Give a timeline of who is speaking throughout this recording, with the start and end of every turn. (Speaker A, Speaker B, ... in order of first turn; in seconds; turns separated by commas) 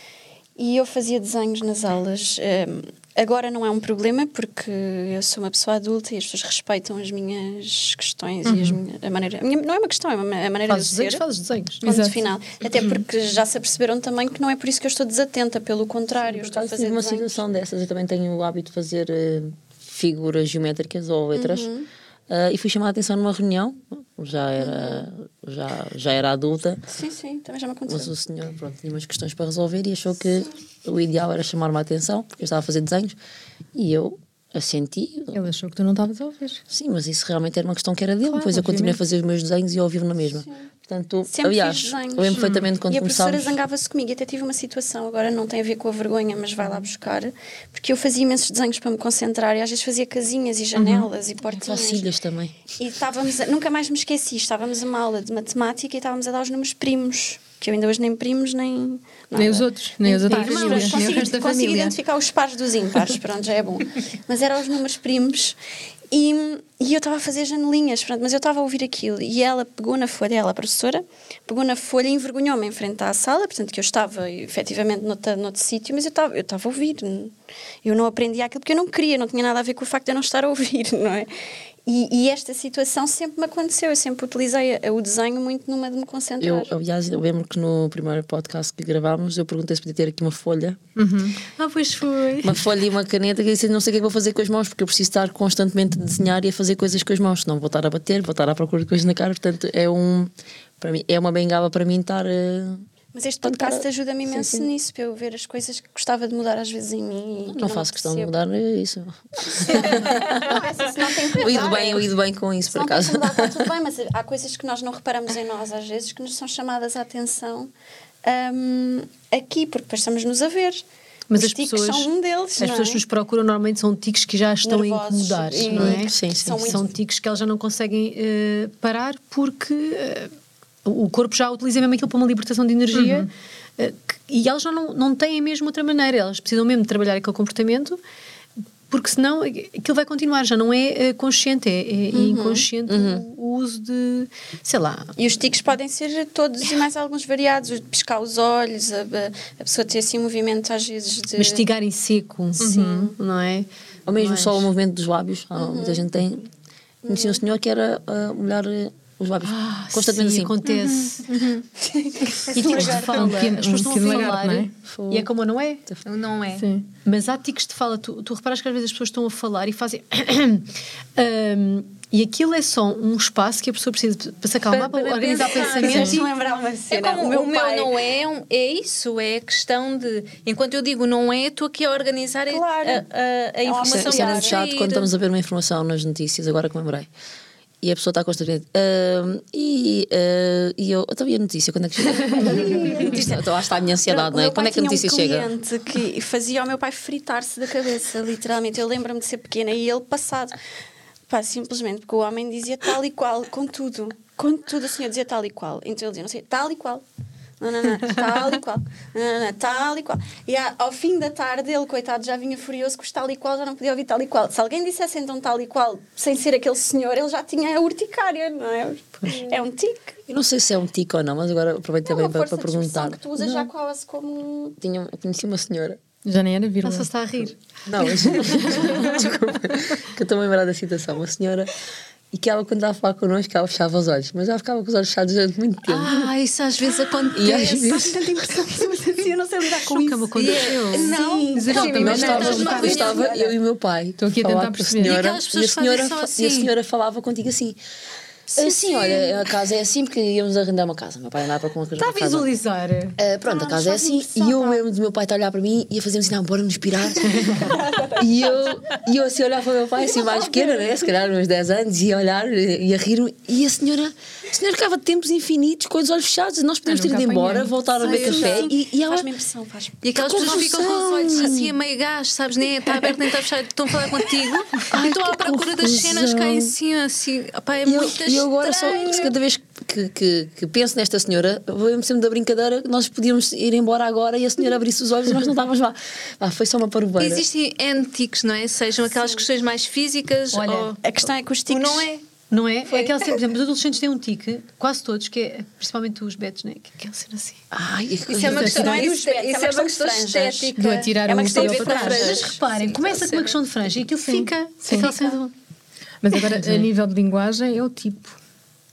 Speaker A: 0.6-11.2, Speaker B: 8.4-8.8, Speaker C: 10.7-11.8, Speaker B: 11.8-12.2, Speaker A: 11.8-17.4, Speaker D: 16.3-21.7, Speaker A: 21.3-21.9, Speaker D: 22.3-26.8, Speaker A: 24.6-25.0, Speaker A: 26.9-28.1, Speaker D: 27.9-33.1, Speaker D: 33.7-35.4, Speaker B: 35.3-36.6, Speaker D: 36.7-43.6, Speaker B: 38.2-39.0, Speaker A: 41.3-52.1, Speaker B: 50.8-51.1, Speaker D: 51.5-52.7, Speaker A: 52.8-65.6, Speaker B: 59.3-61.9, Speaker C: 60.2-61.2, Speaker A: 66.1-81.3, Speaker A: 81.8-86.7, Speaker D: 86.4-90.8, Speaker B: 91.0-91.4, Speaker C: 91.6-92.6, Speaker D: 92.4-102.8, Speaker A: 103.1-108.3, Speaker D: 103.4-104.7, Speaker D: 107.5-110.6, Speaker A: 109.5-112.1, Speaker D: 111.3-113.7, Speaker A: 112.7-117.7, Speaker A: 118.2-123.0, Speaker C: 121.3-130.3, Speaker A: 124.6-126.9, Speaker D: 125.7-126.8, Speaker C: 130.8-138.0, Speaker B: 132.9-133.3, Speaker C: 138.9-145.1, Speaker A: 142.1-142.7, Speaker D: 142.9-143.2, Speaker A: 145.2-151.6, Speaker C: 151.3-154.7, Speaker B: 152.6-153.1, Speaker A: 152.6-153.1, Speaker D: 154.1-156.5, Speaker A: 155.6-156.1, Speaker A: 157.1-157.4, Speaker D: 157.1-160.5, Speaker C: 159.4-161.3, Speaker E: 160.6-161.6, Speaker A: 162.2-163.5, Speaker C: 162.5-165.8, Speaker B: 162.5-164.7, Speaker D: 164.8-165.3, Speaker E: 166.0-166.7, Speaker B: 166.6-166.9, Speaker C: 167.0-176.3, Speaker E: 174.7-176.2, Speaker A: 175.6-178.0, Speaker E: 176.9-185.1, Speaker A: 182.5-183.1, Speaker A: 183.6-184.6, Speaker D: 183.8-187.1, Speaker D: 187.8-195.5, Speaker A: 192.2-193.5, Speaker A: 194.0-200.5, Speaker A: 201.3-207.0, Speaker A: 207.6-220.2, Speaker D: 220.3-223.7, Speaker A: 222.0-224.8, Speaker D: 224.8-226.0, Speaker B: 226.2-227.1, Speaker C: 226.8-227.6, Speaker D: 227.8-231.7, Speaker C: 228.1-229.0, Speaker B: 228.2-229.0, Speaker D: 232.3-236.3, Speaker E: 235.9-238.0, Speaker D: 237.3-238.3, Speaker A: 237.5-243.5, Speaker C: 239.8-241.2, Speaker E: 240.3-243.3, Speaker B: 241.5-243.1, Speaker D: 241.7-247.8, Speaker C: 241.7-242.9, Speaker B: 244.2-245.2, Speaker C: 245.0-246.7, Speaker E: 245.1-246.1, Speaker A: 248.5-249.4, Speaker D: 248.6-252.5, Speaker C: 252.0-254.8, Speaker D: 253.2-269.3, Speaker A: 257.5-258.7, Speaker A: 260.1-260.9, Speaker B: 266.8-267.8, Speaker A: 268.0-270.6, Speaker E: 268.0-268.7, Speaker E: 270.0-279.3, Speaker D: 270.1-271.7, Speaker A: 274.1-274.5, Speaker D: 274.9-276.7, Speaker D: 277.8-287.4, Speaker E: 287.2-291.0, Speaker C: 290.5-290.9, Speaker A: 291.0-292.1, Speaker E: 291.7-292.2, Speaker C: 292.5-297.6, Speaker E: 292.9-293.3, Speaker D: 297.7-299.0, Speaker E: 298.3-300.8, Speaker A: 298.5-302.6, Speaker B: 300.7-302.3, Speaker E: 301.4-303.6, Speaker C: 302.2-305.5, Speaker B: 304.2-305.4, Speaker B: 306.2-308.4, Speaker C: 306.5-306.8